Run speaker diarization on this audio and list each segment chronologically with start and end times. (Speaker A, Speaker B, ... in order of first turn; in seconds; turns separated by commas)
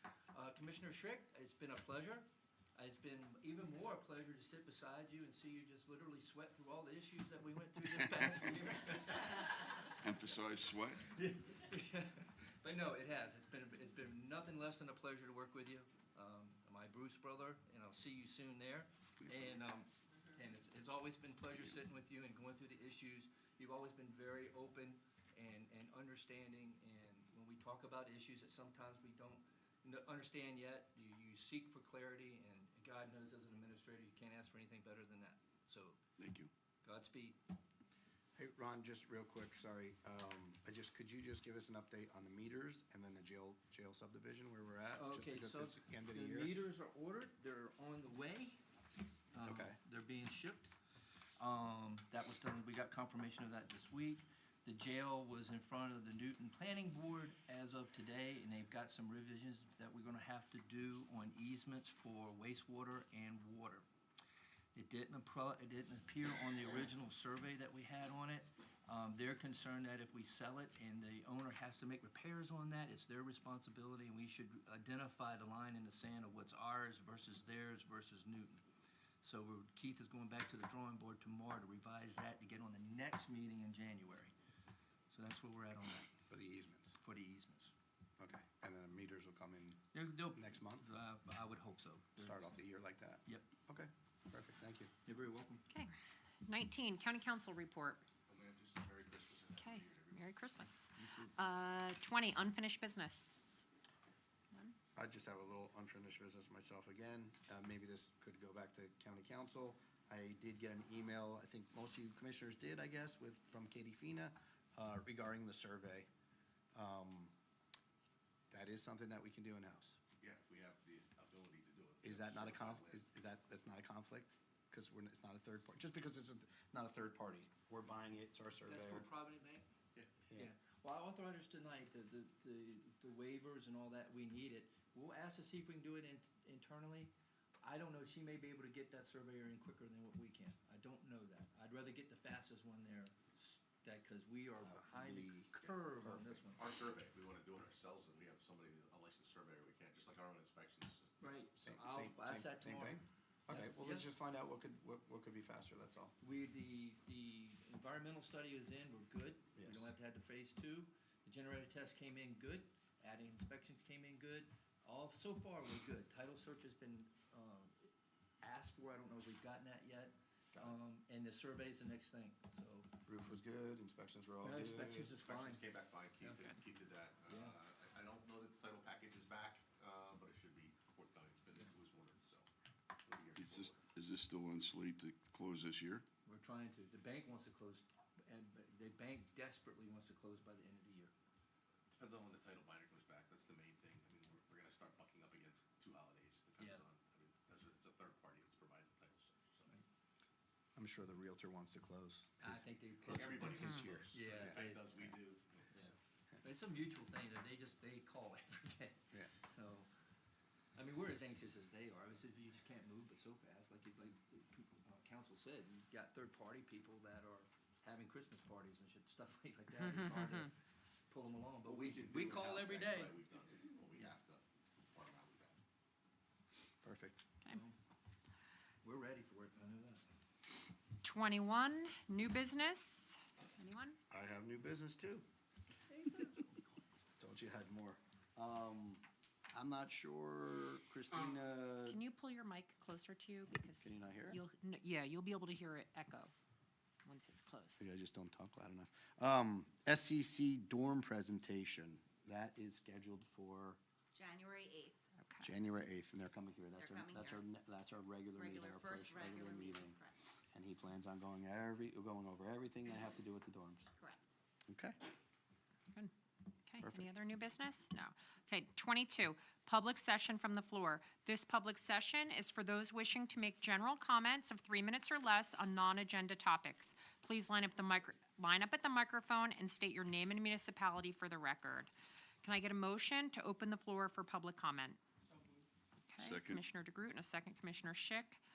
Speaker A: 0.3-10.0, Speaker B: 10.0-11.1, Speaker A: 11.0-36.0, Speaker B: 36.2-36.5, Speaker A: 36.8-37.4, Speaker C: 38.4-46.5, Speaker A: 44.9-48.6, Speaker A: 49.3-50.7, Speaker C: 49.4-49.8, Speaker A: 51.4-63.9, Speaker A: 64.7-78.6, Speaker A: 79.2-84.3, Speaker A: 85.1-86.1, Speaker C: 86.3-87.0, Speaker A: 87.0-87.7, Speaker C: 88.2-90.9, Speaker A: 89.9-92.6, Speaker C: 92.2-94.9, Speaker A: 95.0-95.7, Speaker D: 96.4-98.1, Speaker E: 98.3-100.2, Speaker D: 99.6-103.6, Speaker A: 100.9-101.3, Speaker C: 104.9-116.1, Speaker C: 116.7-117.3, Speaker C: 118.5-120.0, Speaker E: 120.2-123.0, Speaker C: 122.0-129.1, Speaker A: 128.7-129.7, Speaker A: 130.3-146.6, Speaker C: 144.6-146.4, Speaker E: 146.5-151.4, Speaker A: 151.2-154.1, Speaker C: 151.6-156.1, Speaker A: 156.2-167.9, Speaker C: 159.6-159.9, Speaker A: 168.4-172.9, Speaker C: 170.5-170.8, Speaker C: 173.1-175.1, Speaker A: 174.4-175.6, Speaker E: 175.2-182.5, Speaker D: 176.2-176.5, Speaker A: 177.3-177.6, Speaker E: 183.0-183.8, Speaker B: 183.4-186.0, Speaker A: 186.2-191.1, Speaker E: 191.9-199.7, Speaker A: 196.6-196.8, Speaker C: 200.8-204.5, Speaker A: 202.4-205.2, Speaker E: 203.0-205.8, Speaker D: 203.6-203.9, Speaker A: 205.7-209.9, Speaker A: 210.8-220.5, Speaker D: 219.8-220.5, Speaker A: 221.1-223.2, Speaker E: 221.6-225.6, Speaker C: 226.8-227.2, Speaker A: 227.4-227.7, Speaker A: 228.8-230.1, Speaker D: 231.0-234.0, Speaker C: 234.1-235.2, Speaker A: 235.9-236.7, Speaker C: 237.2-242.0, Speaker D: 241.8-246.3, Speaker C: 243.6-244.4, Speaker D: 247.0-247.9, Speaker C: 247.8-253.8, Speaker F: 254.1-255.0, Speaker D: 255.2-255.5, Speaker C: 255.4-260.0, Speaker F: 256.7-257.4, Speaker F: 258.3-260.1, Speaker C: 260.5-263.9, Speaker F: 263.9-264.3, Speaker C: 264.7-265.0, Speaker D: 266.6-281.9, Speaker C: 266.8-267.1, Speaker D: 282.4-285.0, Speaker D: 286.1-288.4, Speaker B: 286.1-286.6